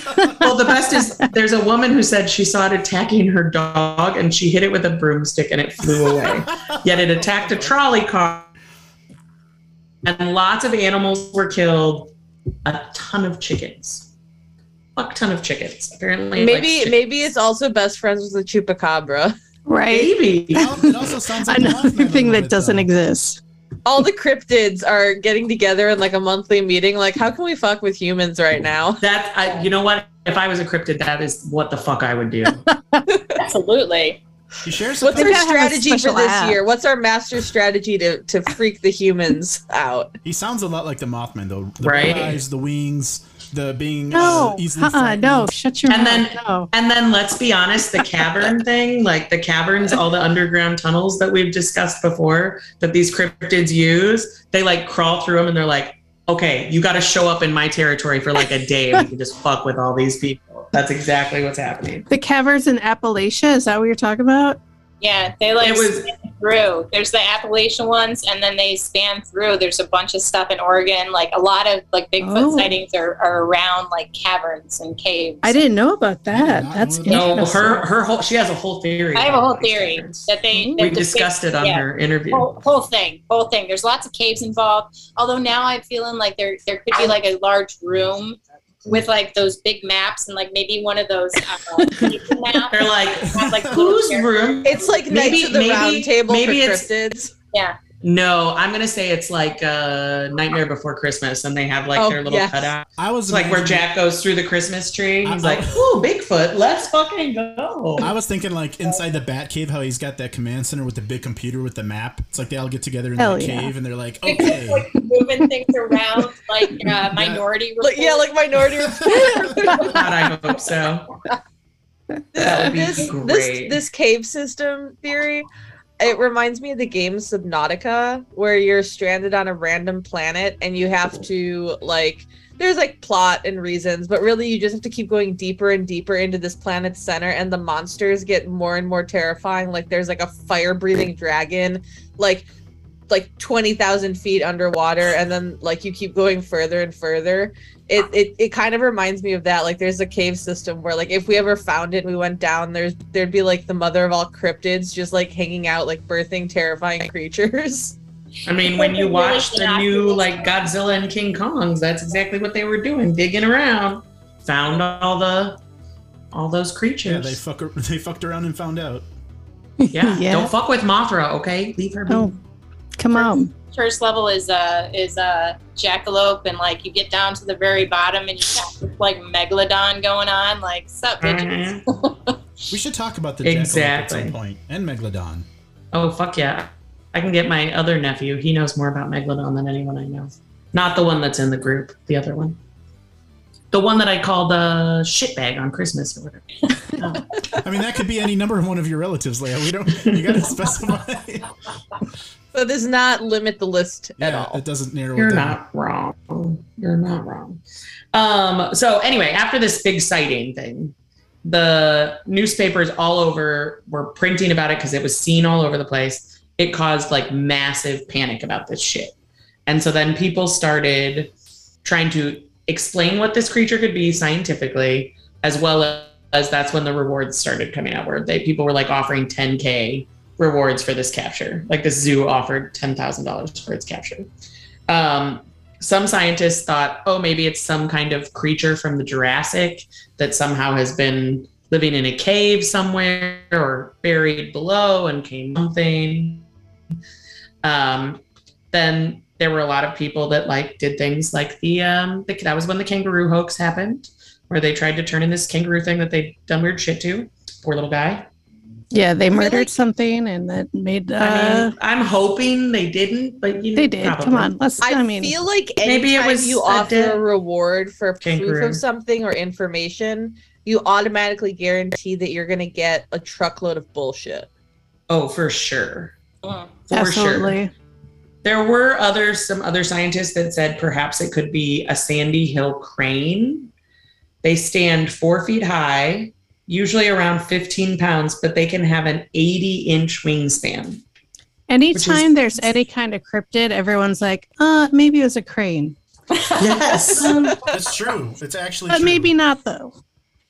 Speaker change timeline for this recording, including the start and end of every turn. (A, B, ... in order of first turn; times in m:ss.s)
0:00.1-0:00.4 A
0:00.4-0:08.5 B
0:05.8-0:07.7 C
0:10.0-0:12.1 B
0:12.6-0:14.1 B
0:15.0-0:17.0 B
0:16.4-0:19.3 D
0:19.7-0:20.8 A
0:19.9-0:20.8 B
0:20.5-0:22.9 C
0:21.4-0:23.4 A
0:23.8-0:29.0 D
0:29.0-0:32.6 B
0:32.6-0:33.0 A
0:33.1-0:33.4 D
0:33.4-0:34.2 E
0:34.6-0:35.4 C
0:35.0-0:40.1 D
0:35.1-0:36.6 A
0:40.2-0:45.5 C
0:41.8-0:42.4 B
0:44.1-0:46.7 A
0:45.9-1:02.1 B
1:02.1-1:04.6 A
1:05.0-1:15.6 E
1:05.6-1:06.1 B
1:12.2-1:12.7 A
1:15.4-1:17.8 A
1:16.3-1:17.8 C
1:17.1-1:22.5 B
1:19.1-1:35.0 E
1:20.5-1:21.0 A
1:31.8-1:32.1 A
1:32.7-1:36.9 B
1:33.3-1:33.8 C
1:34.6-1:37.3 D
1:37.5-1:37.8 E
1:38.0-1:48.1 B
1:41.9-1:42.7 D
1:43.0-1:43.8 C
1:45.2-1:45.8 C
1:48.0-1:54.9 C
1:53.2-1:53.7 A
1:54.2-1:58.3 E
1:57.1-1:57.4 C
1:57.8-1:59.9 D
1:58.7-1:59.5 C
1:59.8-2:01.1 B
2:02.3-2:05.5 D
2:02.4-2:03.8 B
2:06.0-2:22.4 D
2:23.1-2:37.9 D
2:38.4-2:45.6 B
2:38.6-2:40.6 E
2:46.3-2:47.4 B
2:47.0-2:49.1 C
2:49.8-2:50.5 A
2:49.9-2:52.3 B
2:52.1-2:52.4 A
2:53.0-2:53.5 A
2:53.2-3:02.3 E
3:01.2-3:01.8 B
3:02.7-3:05.5 C
3:03.4-3:04.3 B
3:05.9-3:12.6 B
3:13.7-3:17.2 B
3:17.5-3:21.5 C
3:20.0-3:20.4 B
3:22.5-3:24.6 D
3:24.2-3:25.6 C
3:25.2-3:27.6 B
3:28.1-3:39.1 B
3:39.7-3:41.3 B
3:41.8-3:54.3 B
3:54.9-4:06.5 B
4:07.6-4:18.3 B
4:18.9-4:21.7 A
4:19.3-4:19.8 D
4:21.2-4:24.5 B
4:23.8-4:25.3 A
4:24.8-4:34.5 D
4:25.8-4:27.2 B
4:28.2-4:28.8 B
4:35.1-4:36.1 B
4:36.4-4:36.7 E
4:36.9-4:37.6 B
4:36.9-4:37.7 A
4:38.4-4:43.7 B
4:44.4-4:51.0 B
4:51.7-4:55.9 A
4:51.9-4:52.8 B
4:56.4-4:57.3 E
4:56.6-4:57.5 B
4:57.2-4:57.6 A
4:57.6-4:59.3 C
4:58.9-5:00.0 A